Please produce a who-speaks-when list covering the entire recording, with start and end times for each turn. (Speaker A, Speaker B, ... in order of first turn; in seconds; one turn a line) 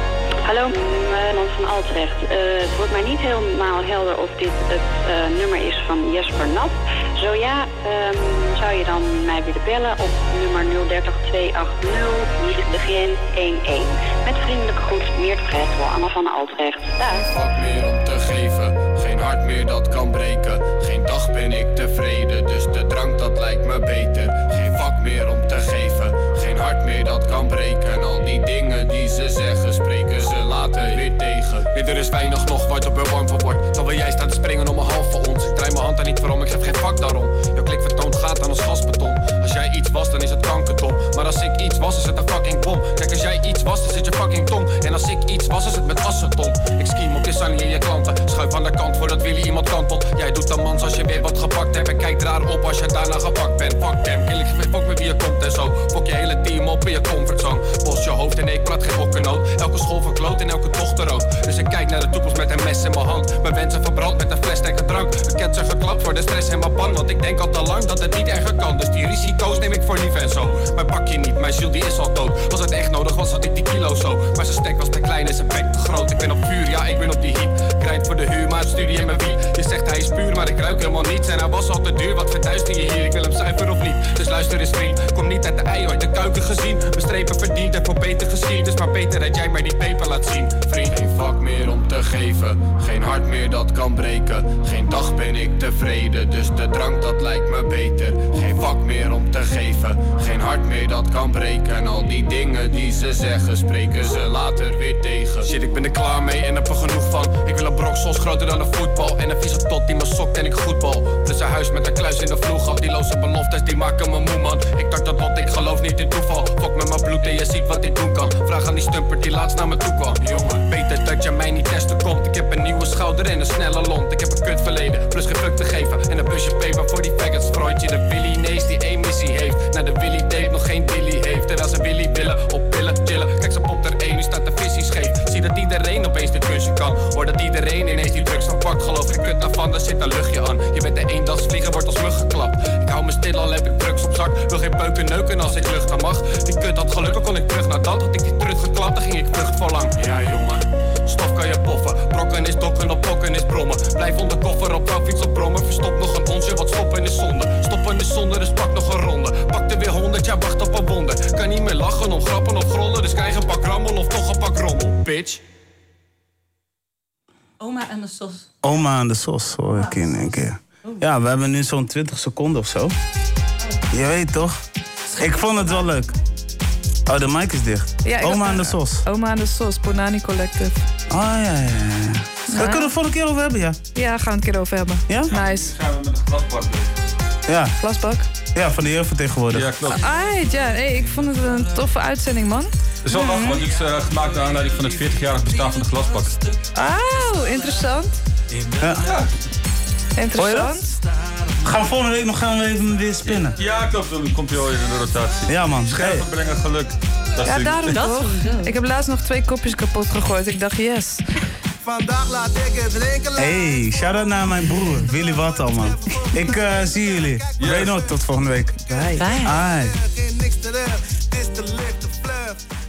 Speaker A: 0.5-17.2
Speaker B: 17.2-165.4
Speaker C: 167.6-168.5
Speaker D: 168.6-172.9
Speaker C: 169.7-171.1
Speaker D: 173.9-174.6
Speaker C: 175.1-176.1
Speaker D: 175.2-176.1
Speaker D: 177.1-179.0
Speaker E: 178.0-180.8
Speaker D: 181.1-183.8
Speaker E: 182.5-182.9
Speaker E: 183.9-185.7
Speaker D: 185.1-185.3
Speaker F: 185.3-186.9
Speaker D: 187.5-187.7
Speaker E: 187.8-188.3
Speaker D: 188.5-189.8
Speaker F: 189.5-190.1
Speaker E: 189.9-193.6
Speaker F: 193.0-196.4
Speaker E: 196.7-198.1
Speaker F: 199.0-199.3
Speaker E: 200.2-200.9
Speaker D: 200.4-200.7
Speaker D: 201.6-203.6
Speaker F: 203.2-208.0
Speaker D: 205.5-206.2
Speaker E: 207.4-211.2
Speaker C: 207.9-208.8
Speaker G: 211.8-213.3
Speaker D: 213.4-219.9
Speaker F: 217.6-217.9
Speaker E: 218.9-219.2
Speaker C: 219.2-219.5
Speaker G: 220.3-222.5